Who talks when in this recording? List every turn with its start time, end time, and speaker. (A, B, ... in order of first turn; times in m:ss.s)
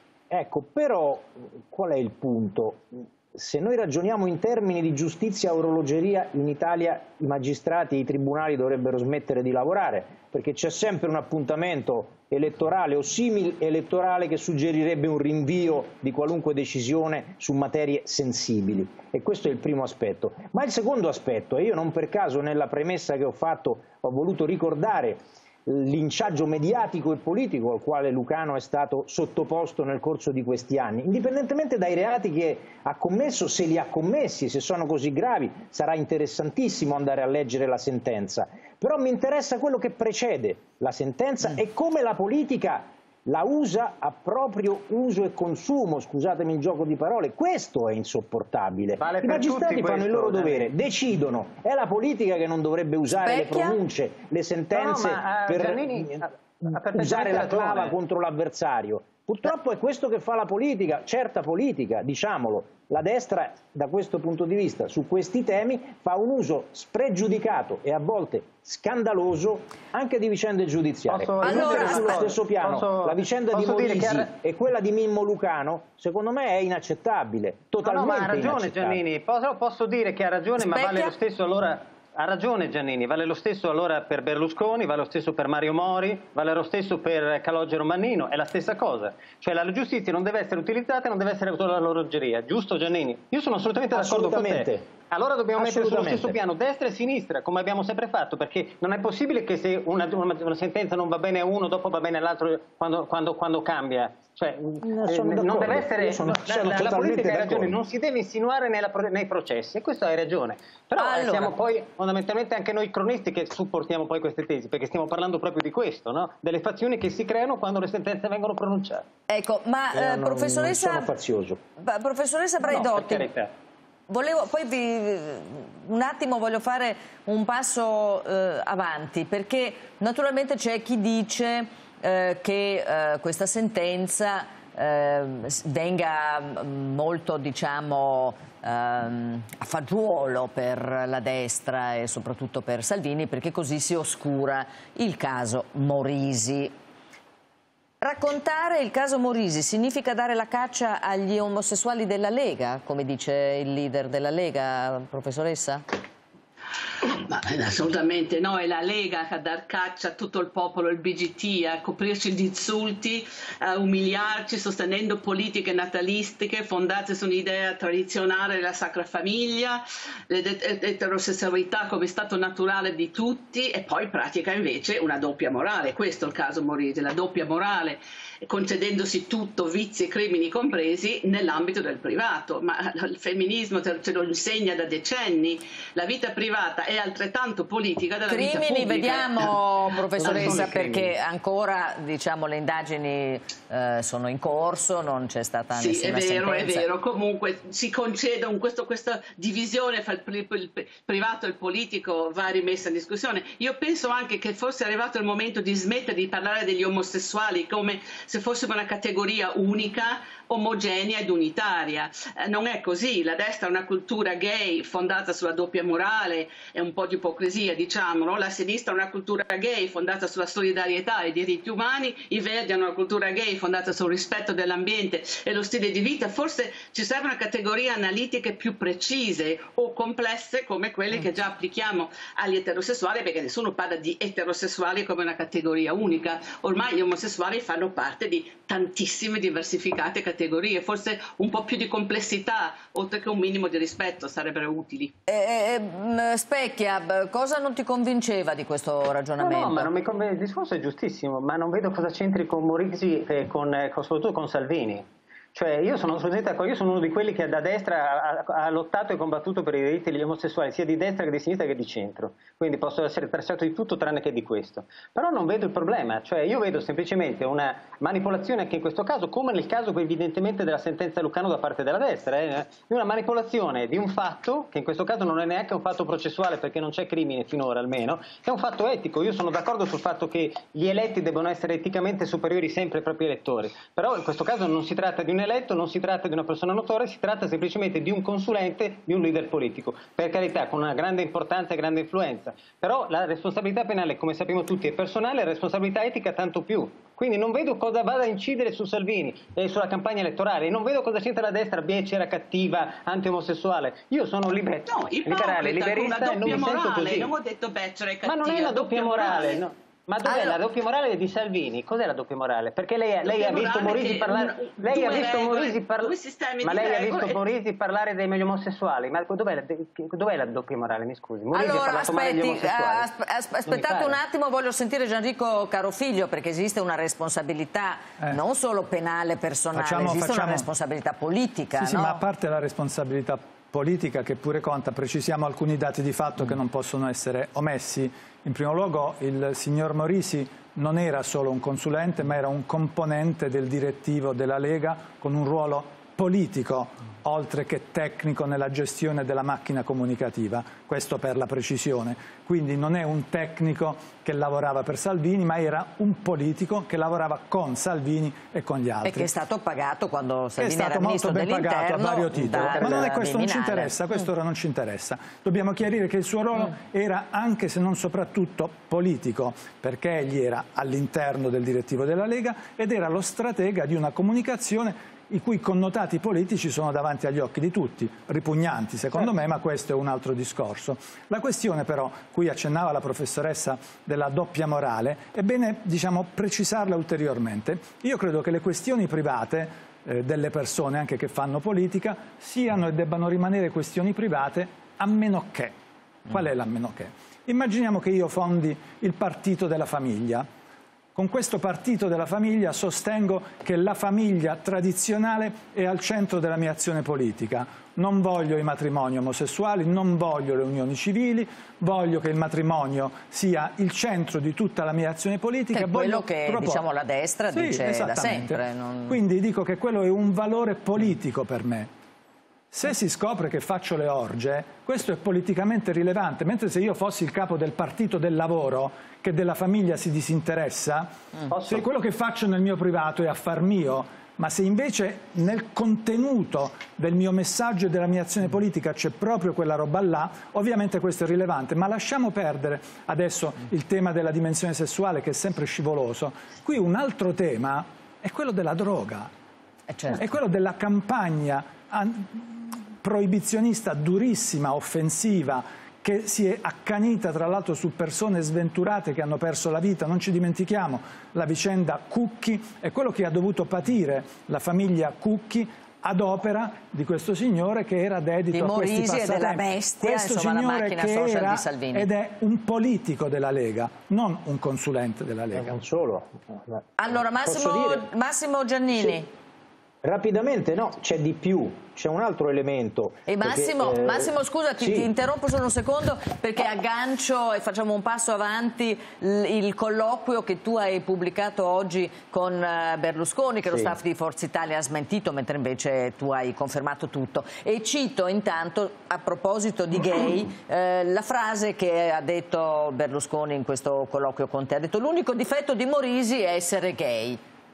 0:00.3-1:19.0 A
0:49.0-0:50.7 B
0:53.1-0:53.8 C
0:54.7-0:58.0 B
1:11.1-1:14.3 B
1:11.4-1:12.2 C
1:17.8-1:59.0 B
1:20.6-1:21.1 C
1:33.9-1:34.9 A
1:35.6-1:36.4 A
1:44.8-1:47.7 A
1:51.0-1:51.5 C
1:59.3-2:01.1 C
1:59.9-2:01.6 A
2:01.8-2:03.3 C
2:02.6-2:03.5 B
2:04.1-2:26.7 C
2:28.0-2:35.8 C
2:37.0-3:09.5 D
3:08.3-3:16.9 C
3:10.2-3:11.1 B
3:10.3-3:10.6 D
3:15.7-4:05.1 D
4:05.3-4:09.9 C
4:09.4-5:07.3 B
5:04.8-5:09.6 D
5:08.2-5:23.0 B
5:10.2-5:10.6 C
5:13.2-5:17.4 D
5:21.5-5:32.2 C
5:23.7-5:24.2 B
5:29.7-5:30.7 E
5:31.8-5:59.3 E
5:59.0-6:03.9 C
6:00.6-6:35.7 E
6:36.3-6:40.4 E
6:41.1-6:56.8 E
6:55.7-6:59.2 C
6:57.5-7:01.9 E
7:02.7-7:29.3 E
7:11.5-7:11.8 B
7:29.9-7:30.2 C
7:30.1-7:55.8 E
7:48.5-7:52.1 C
7:55.5-7:56.9 A
7:57.0-7:59.3 C
7:57.4-7:58.0 A
8:00.0-8:05.1 A
8:03.3-8:27.4 C